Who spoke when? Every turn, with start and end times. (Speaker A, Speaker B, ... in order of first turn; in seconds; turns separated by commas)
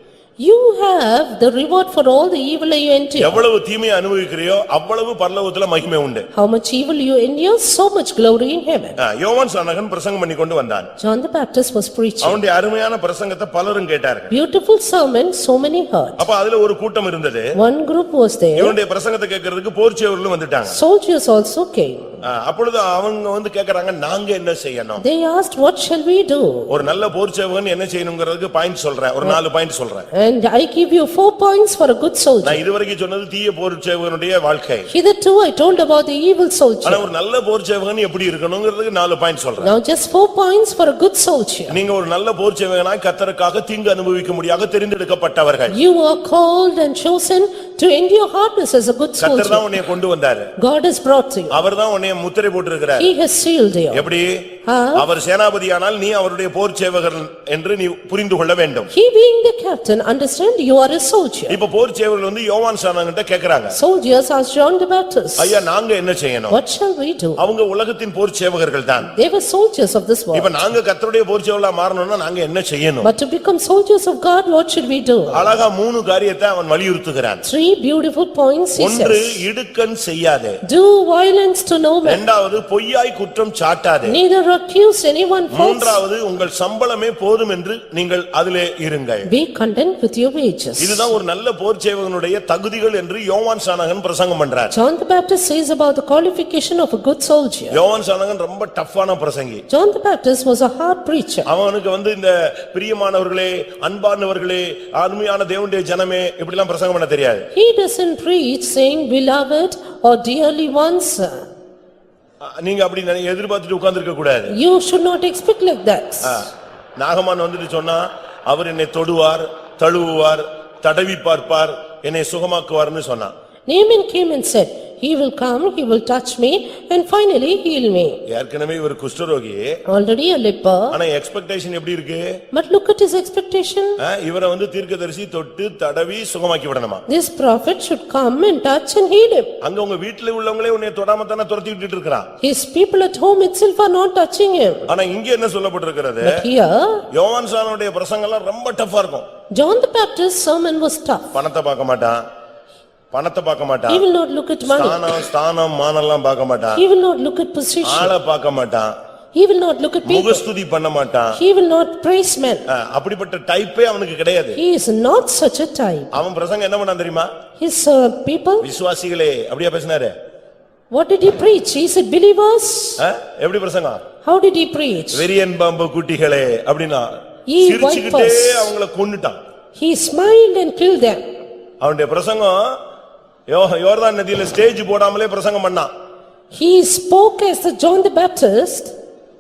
Speaker A: 0.4-3.4, Speaker B: 3.2-6.3, Speaker A: 6.3-9.0, Speaker B: 9.0-10.9, Speaker A: 11.0-12.4, Speaker B: 12.2-14.3, Speaker A: 14.3-16.2, Speaker B: 16.2-17.5, Speaker A: 17.6-18.8, Speaker B: 18.6-20.8, Speaker A: 20.7-22.1, Speaker B: 22.2-25.0, Speaker A: 25.0-26.7, Speaker B: 26.7-30.1, Speaker A: 30.1-32.6, Speaker B: 32.4-34.9, Speaker A: 34.9-37.0, Speaker B: 36.8-39.7, Speaker A: 39.6-41.8, Speaker B: 41.7-45.8, Speaker A: 45.7-49.7, Speaker B: 49.2-50.5, Speaker A: 50.6-51.6, Speaker B: 51.5-53.1, Speaker A: 53.0-54.0, Speaker B: 53.9-58.9, Speaker A: 54.6-55.0, Speaker A: 58.9-61.6, Speaker B: 61.5-63.8, Speaker A: 63.7-65.6, Speaker B: 65.4-66.6, Speaker A: 66.5-67.4, Speaker B: 67.4-69.1, Speaker A: 69.1-70.7, Speaker B: 70.3-73.1, Speaker A: 73.0-75.5, Speaker B: 75.3-77.4, Speaker A: 77.4-79.4, Speaker B: 78.8-80.6, Speaker A: 80.7-82.2, Speaker B: 82.0-84.2, Speaker A: 84.1-86.0, Speaker B: 85.5-89.3, Speaker A: 89.3-91.1, Speaker B: 90.8-94.7, Speaker A: 94.7-97.8, Speaker B: 97.7-99.6, Speaker A: 99.7-101.5, Speaker B: 101.5-107.5, Speaker A: 107.5-111.5, Speaker B: 112.4-114.5, Speaker A: 114.5-116.4, Speaker B: 116.2-123.3, Speaker A: 123.7-128.2, Speaker B: 128.3-129.7, Speaker A: 129.9-130.9, Speaker B: 130.9-132.4, Speaker A: 132.5-134.0, Speaker B: 134.0-137.0, Speaker A: 137.1-139.5, Speaker B: 139.6-142.3, Speaker A: 142.4-144.8, Speaker B: 144.9-146.4, Speaker A: 146.2-147.0, Speaker B: 147.1-149.2, Speaker A: 149.5-151.3, Speaker B: 151.3-152.2, Speaker B: 153.1-154.0, Speaker A: 153.9-155.2, Speaker B: 154.7-156.8, Speaker A: 156.7-158.1, Speaker B: 157.8-158.9, Speaker A: 159.3-160.4, Speaker B: 160.0-161.4, Speaker A: 161.3-162.7, Speaker B: 162.7-164.6, Speaker A: 164.5-166.1, Speaker B: 166.1-167.3, Speaker A: 167.6-168.7, Speaker B: 168.6-170.1, Speaker A: 170.9-173.0, Speaker B: 173.0-174.0, Speaker A: 174.2-175.2, Speaker B: 175.1-177.1, Speaker A: 177.5-178.7, Speaker B: 177.6-179.4, Speaker A: 179.8-181.2, Speaker B: 181.8-182.8, Speaker B: 183.5-185.9, Speaker A: 186.5-188.9